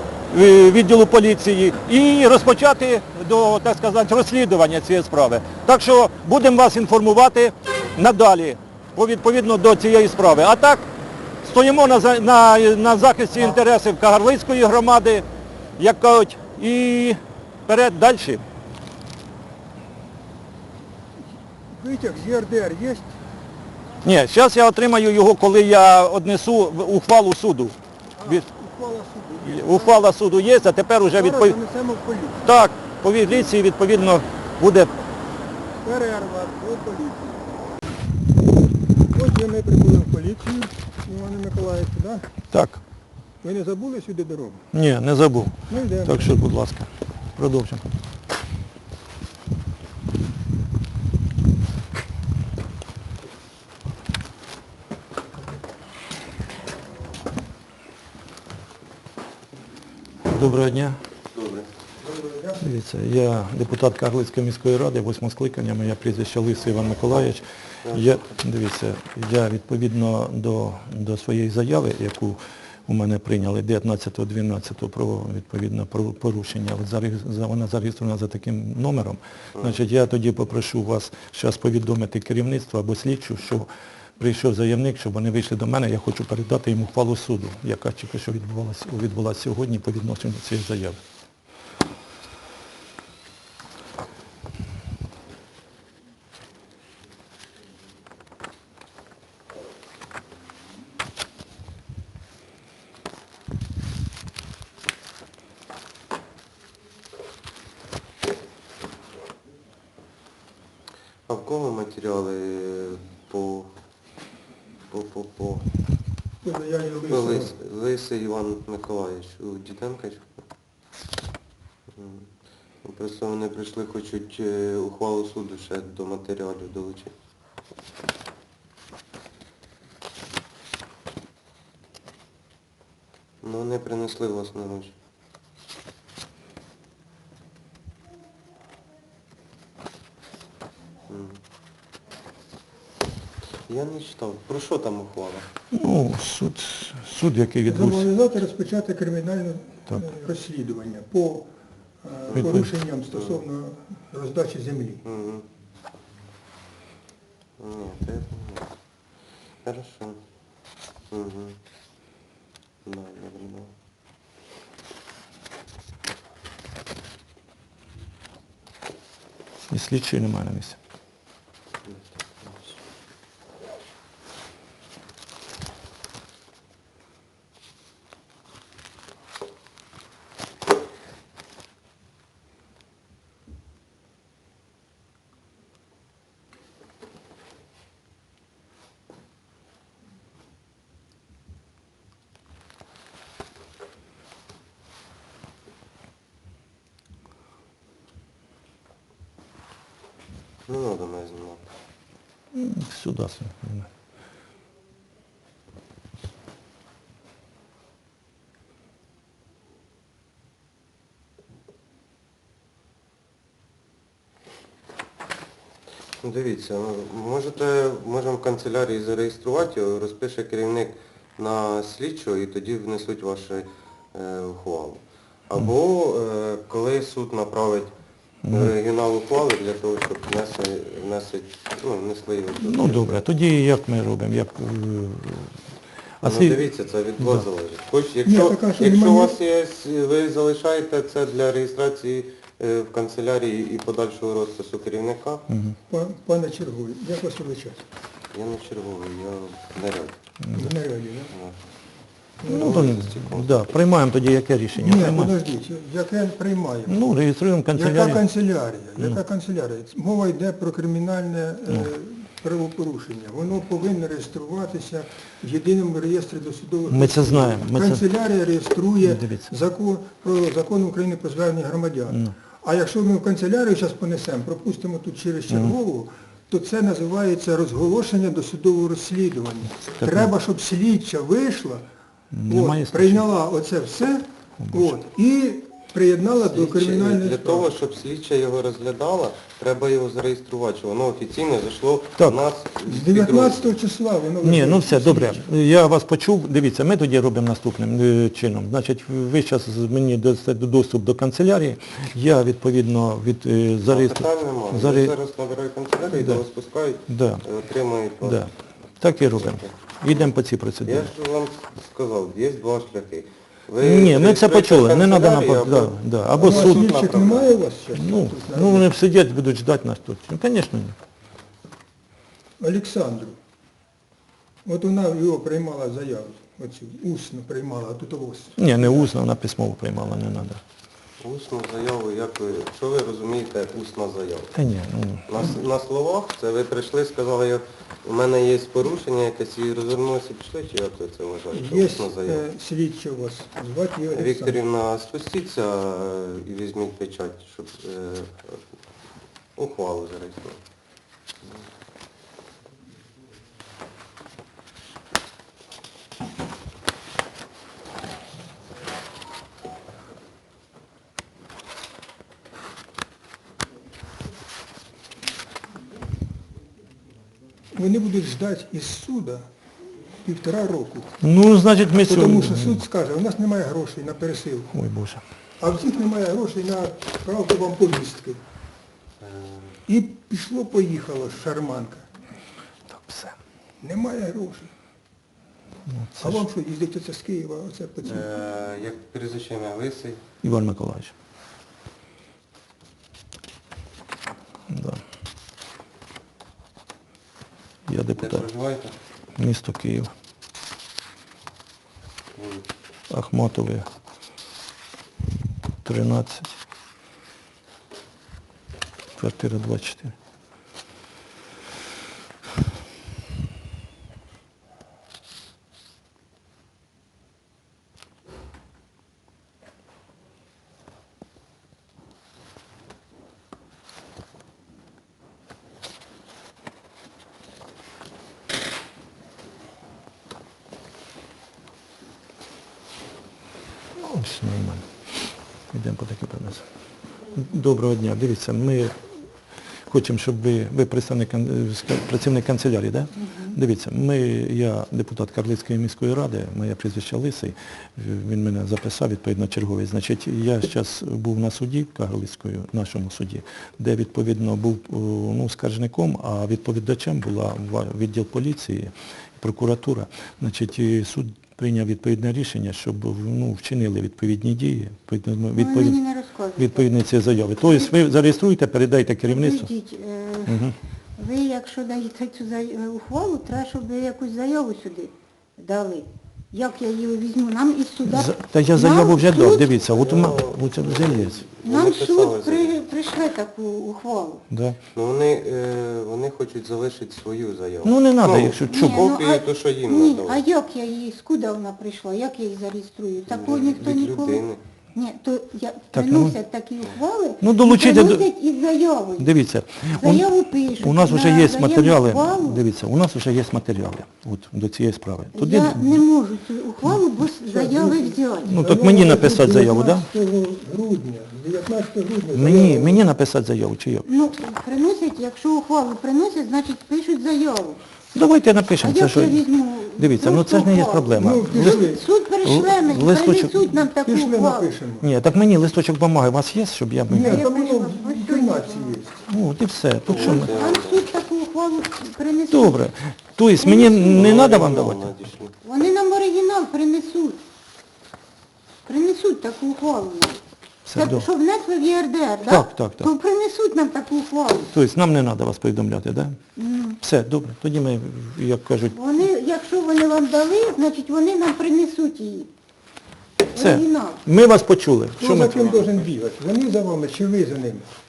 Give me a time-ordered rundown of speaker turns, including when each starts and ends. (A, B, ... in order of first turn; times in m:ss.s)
0:00.3-0:10.8 A
0:11.4-0:15.2 A
0:15.8-0:18.4 A
0:21.7-0:23.2 B
0:24.0-0:28.4 A
0:28.2-0:30.0 B
0:29.4-0:31.6 A
0:31.2-0:32.5 B
0:32.4-0:34.9 A
0:35.8-0:37.5 B
0:39.1-0:42.3 B
0:42.5-0:42.8 A
0:43.4-0:44.6 B
0:44.7-0:47.8 A
0:45.7-0:46.4 B
1:00.3-1:01.0 A
1:01.4-1:01.6 C
1:02.0-1:02.6 B
1:02.6-1:31.0 A
1:07.8-1:08.2 C
1:51.3-1:53.7 C
1:54.9-1:55.6 C
1:56.4-1:57.5 B
1:57.1-2:00.3 C
2:01.9-2:02.3 C
2:02.8-2:07.1 C
2:13.4-2:14.9 C
2:21.1-2:21.4 C
2:23.7-2:25.4 C
2:25.7-2:28.1 A
2:27.6-2:31.5 B
2:32.0-2:35.0 B
2:32.3-2:33.4 C
2:32.4-2:32.7 A
2:35.0-2:35.4 C
2:37.6-2:38.7 C
2:39.6-2:40.2 C
2:41.1-2:41.6 C
2:42.8-2:43.7 C
2:49.7-2:50.8 A
2:51.8-2:52.7 C
3:20.7-3:21.6 C
3:22.5-3:23.9 A
3:36.2-3:47.9 C
3:48.4-3:48.7 A
3:48.5-3:53.2 C
3:52.6-3:55.5 A
3:56.2-3:56.6 A
3:56.2-4:05.4 C
3:57.2-3:57.4 A
3:58.2-3:59.4 B
4:05.5-4:05.8 A
4:05.9-4:07.8 B
4:08.3-4:10.2 C
4:10.4-4:10.7 A
4:10.5-4:11.3 B
4:12.4-4:12.9 B
4:12.4-4:15.3 A
4:12.5-4:13.7 C
4:14.8-4:17.1 B
4:16.9-4:18.2 A
4:17.7-4:41.9 B
4:26.9-4:28.0 A
4:29.0-4:29.5 A
4:32.1-4:32.3 A
4:40.0-4:40.3 A
4:42.3-4:43.3 A
4:42.5-4:47.7 B
4:44.6-4:45.0 A
4:46.5-4:53.7 C
4:52.8-4:55.5 B
4:54.4-5:05.1 A
5:03.9-5:08.4 C
5:06.2-5:06.4 A
5:07.1-5:07.4 A
5:08.2-5:11.1 A
5:09.4-5:09.7 C
5:10.8-5:17.5 C
5:13.8-5:16.9 A
5:16.4-5:18.9 B
5:17.9-5:21.0 A
5:22.6-5:23.4 B
5:24.6-5:29.1 B
5:28.6-5:30.6 A
5:31.2-5:34.6 C
5:34.5-5:35.3 A
5:35.3-5:42.4 C
5:41.5-5:44.6 B
5:44.1-5:48.6 C
5:49.6-5:50.6 C
6:07.7-6:09.5 B
6:10.2-6:11.1 B
6:11.2-6:12.8 A
6:11.9-6:14.7 B
6:14.7-6:15.2 A
6:15.6-6:18.4 B
6:19.2-6:19.7 C
6:19.9-6:22.0 B
6:22.9-6:23.4 A
6:23.8-6:24.7 B
6:25.9-6:26.4 A
6:26.2-6:28.3 B
6:28.0-6:30.2 C
6:30.4-6:31.1 A
6:34.7-6:35.0 A
6:37.9-6:38.5 A
6:38.2-6:39.0 C
6:39.4-6:40.1 A
6:42.4-6:42.6 C
6:43.1-6:43.9 A
6:45.8-6:46.6 A
6:49.2-6:50.1 A
7:14.0-7:14.8 A
7:15.7-7:16.6 A
7:17.3-7:18.9 A
7:19.9-7:46.0 A
7:45.5-7:46.9 D
7:46.6-7:49.7 A
7:47.6-7:48.0 D
7:49.2-7:50.6 D
7:50.4-7:50.8 A
7:51.2-7:59.7 D
7:58.0-8:01.5 A
7:59.8-8:02.8 C
8:01.6-8:04.4 D
8:04.5-8:04.8 A
8:04.9-8:10.4 C
8:07.8-8:09.1 A
8:08.6-8:19.3 D
8:13.3-8:14.6 C
8:15.9-8:16.4 A
8:17.4-8:18.3 A
8:19.2-8:20.3 A
8:20.0-8:22.6 D
8:20.8-8:26.0 A
8:25.3-8:28.5 D
8:27.5-8:33.0 B
8:28.4-8:30.1 A
8:32.3-8:34.1 A
8:34.1-8:37.8 D
8:38.1-8:39.4 A
8:38.8-8:44.7 D
8:40.0-8:41.9 A
8:41.2-8:42.0 B
8:42.4-8:43.6 A
8:44.0-8:45.1 B
8:45.0-8:47.4 A
8:47.1-8:49.2 B
8:47.2-8:49.0 D
8:49.2-8:50.5 A
8:50.1-8:51.1 C
8:50.2-8:52.8 D
8:52.5-8:55.1 A
8:53.6-8:54.3 D
8:54.0-8:55.5 C
8:55.6-8:57.4 D
8:58.9-9:00.4 D
9:00.8-9:01.3 A
9:00.9-9:04.7 D
9:02.5-9:03.1 A
9:04.7-9:06.4 A
9:06.6-9:07.0 D
9:07.0-9:09.0 A
9:08.9-9:12.5 D
9:13.5-9:14.2 D
9:13.6-9:15.9 A
9:15.2-9:17.9 B